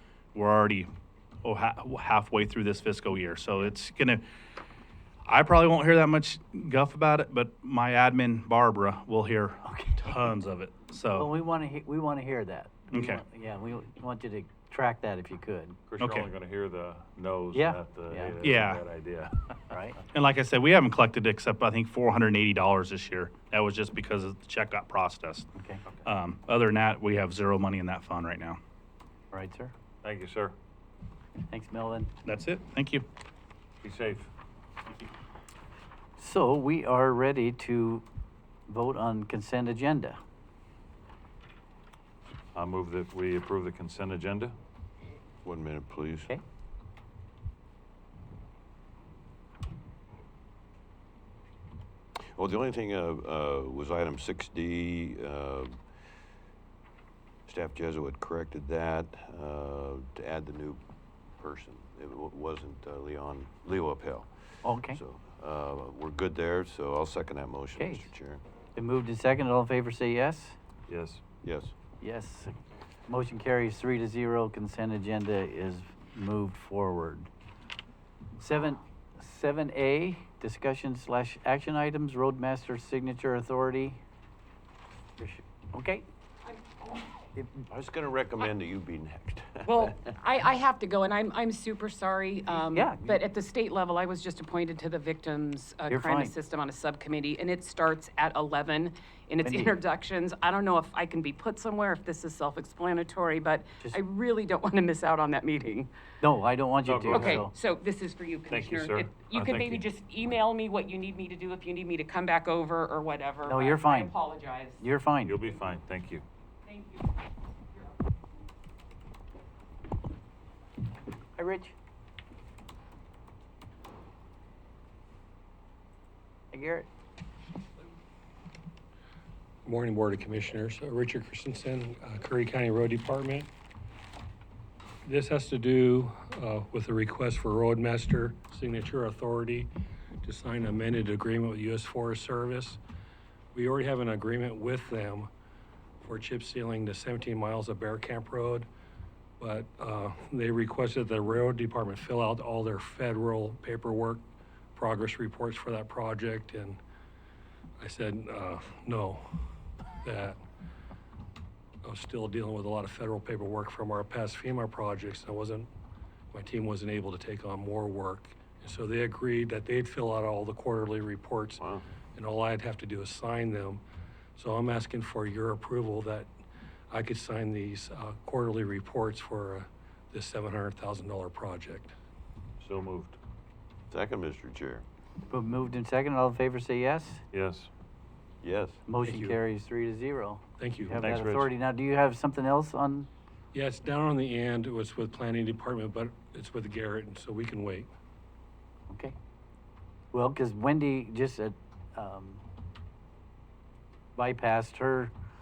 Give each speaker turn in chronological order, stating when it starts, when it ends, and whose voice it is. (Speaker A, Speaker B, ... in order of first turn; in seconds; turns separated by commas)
Speaker A: 0.3-0.9, Speaker A: 1.4-4.2, Speaker A: 5.2-11.3, Speaker B: 9.6-10.3, Speaker B: 11.1-15.8, Speaker A: 12.9-13.2, Speaker C: 15.9-19.3, Speaker A: 16.0-16.3, Speaker B: 17.5-18.4, Speaker A: 18.4-18.8, Speaker B: 19.7-20.0, Speaker A: 20.1-25.5, Speaker B: 25.5-25.8, Speaker A: 26.1-28.6, Speaker B: 29.3-29.7, Speaker C: 30.0-30.5, Speaker B: 31.5-32.1, Speaker A: 32.2-33.0, Speaker C: 33.8-34.3, Speaker B: 36.2-38.0, Speaker B: 38.7-40.2, Speaker C: 42.5-44.5, Speaker D: 45.5-46.3, Speaker D: 52.4-55.7, Speaker D: 57.5-60.8, Speaker D: 61.4-68.4, Speaker B: 64.7-65.0, Speaker B: 67.8-68.1, Speaker B: 68.8-70.6, Speaker C: 70.9-71.2, Speaker D: 71.4-71.7, Speaker B: 72.0-72.6, Speaker B: 73.1-77.3, Speaker B: 78.4-84.0, Speaker B: 85.2-86.1, Speaker D: 87.7-90.1, Speaker E: 89.7-105.9, Speaker B: 92.6-93.2, Speaker B: 95.9-96.3, Speaker B: 99.4-99.8, Speaker B: 106.2-107.5, Speaker C: 106.8-107.5, Speaker E: 107.1-114.8, Speaker C: 108.5-109.9, Speaker B: 113.5-114.1, Speaker B: 114.8-115.4, Speaker C: 115.2-116.2, Speaker E: 116.7-117.0, Speaker B: 121.4-121.8, Speaker B: 126.5-126.9, Speaker F: 129.7-133.5, Speaker F: 135.0-139.7, Speaker F: 140.2-142.8, Speaker F: 143.5-145.3, Speaker F: 146.0-148.7, Speaker F: 149.4-154.2, Speaker F: 154.8-156.8, Speaker F: 157.8-159.2, Speaker F: 160.0-160.4, Speaker F: 161.8-165.7, Speaker F: 166.3-171.6, Speaker D: 171.6-171.8, Speaker F: 172.2-173.8, Speaker F: 174.3-176.3, Speaker F: 176.9-181.9, Speaker C: 182.6-183.2, Speaker D: 183.9-184.8, Speaker B: 185.3-187.2, Speaker C: 187.3-187.7, Speaker D: 188.4-188.8, Speaker B: 188.8-193.1, Speaker F: 189.0-189.4, Speaker F: 190.6-191.0, Speaker C: 191.0-191.5, Speaker F: 193.5-197.9, Speaker B: 198.9-199.1, Speaker B: 200.1-202.4, Speaker B: 204.2-205.1